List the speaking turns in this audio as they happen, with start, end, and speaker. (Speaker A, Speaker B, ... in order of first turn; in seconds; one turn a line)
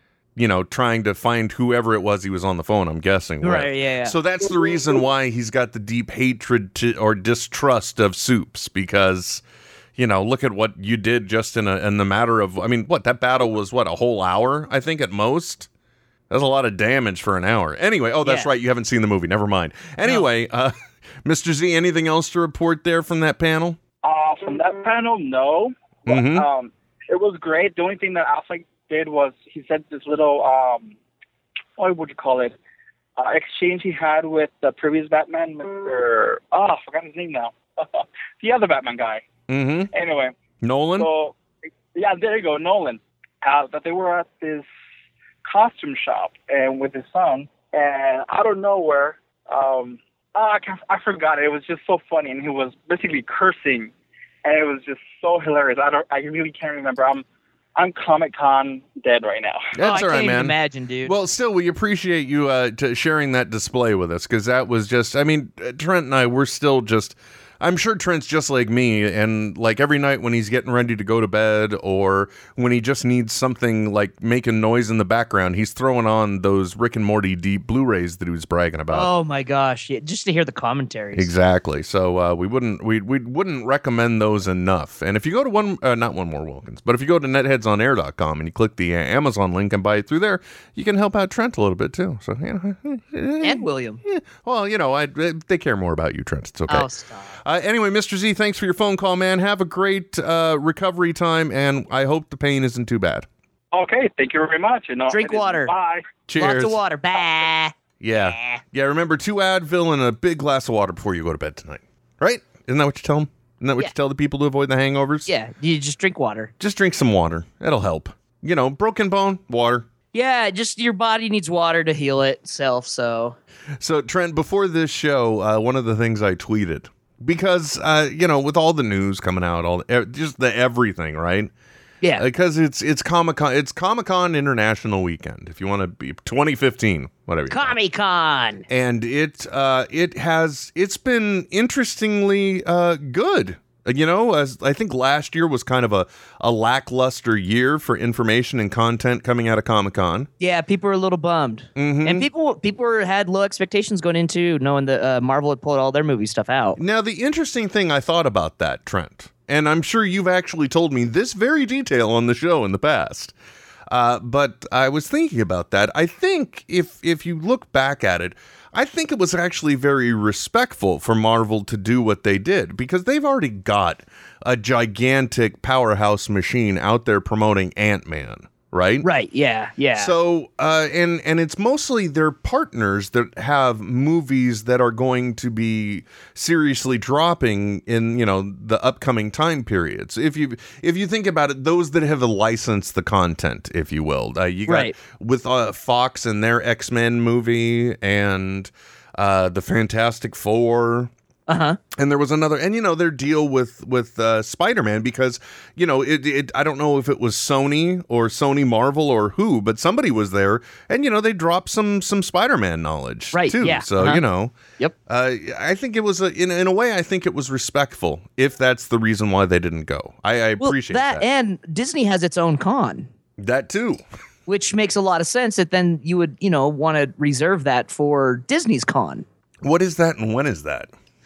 Speaker A: 0.4-9.4
Speaker B: 3.4-4.2
Speaker A: 10.0-15.7
Speaker A: 16.3-20.7
Speaker B: 18.2-18.5
Speaker A: 21.2-23.8
Speaker C: 24.0-31.0
Speaker A: 26.1-26.5
Speaker C: 31.8-32.5
Speaker C: 33.2-39.2
Speaker A: 39.5-39.9
Speaker C: 39.9-40.3
Speaker A: 40.6-41.1
Speaker C: 41.0-41.4
Speaker C: 42.0-44.7
Speaker C: 45.5-53.9
Speaker C: 54.4-57.2
Speaker C: 57.8-59.7
Speaker A: 59.8-79.1
Speaker B: 59.8-61.1
Speaker B: 78.9-81.3
Speaker A: 81.2-96.9
Speaker B: 93.4-94.0
Speaker B: 96.7-97.3
Speaker A: 97.4-103.3
Speaker C: 103.7-106.1
Speaker B: 105.1-105.7
Speaker A: 106.3-106.8
Speaker B: 106.4-108.6
Speaker A: 108.0-115.3
Speaker B: 115.3-116.5
Speaker A: 116.6-119.9
Speaker B: 120.1-123.4
Speaker A: 123.8-131.5
Speaker A: 132.2-137.8
Speaker B: 137.5-138.7
Speaker A: 138.7-150.3
Speaker B: 150.4-156.8
Speaker A: 151.8-152.3
Speaker A: 156.8-163.3
Speaker A: 163.9-179.1
Speaker B: 179.0-180.1
Speaker A: 180.0-201.1
Speaker B: 194.7-194.9
Speaker B: 201.5-201.8
Speaker A: 201.9-214.5
Speaker B: 213.3-214.2
Speaker A: 215.1-221.2
Speaker B: 220.6-223.1
Speaker A: 223.4-224.0
Speaker B: 224.5-229.2
Speaker A: 229.6-230.9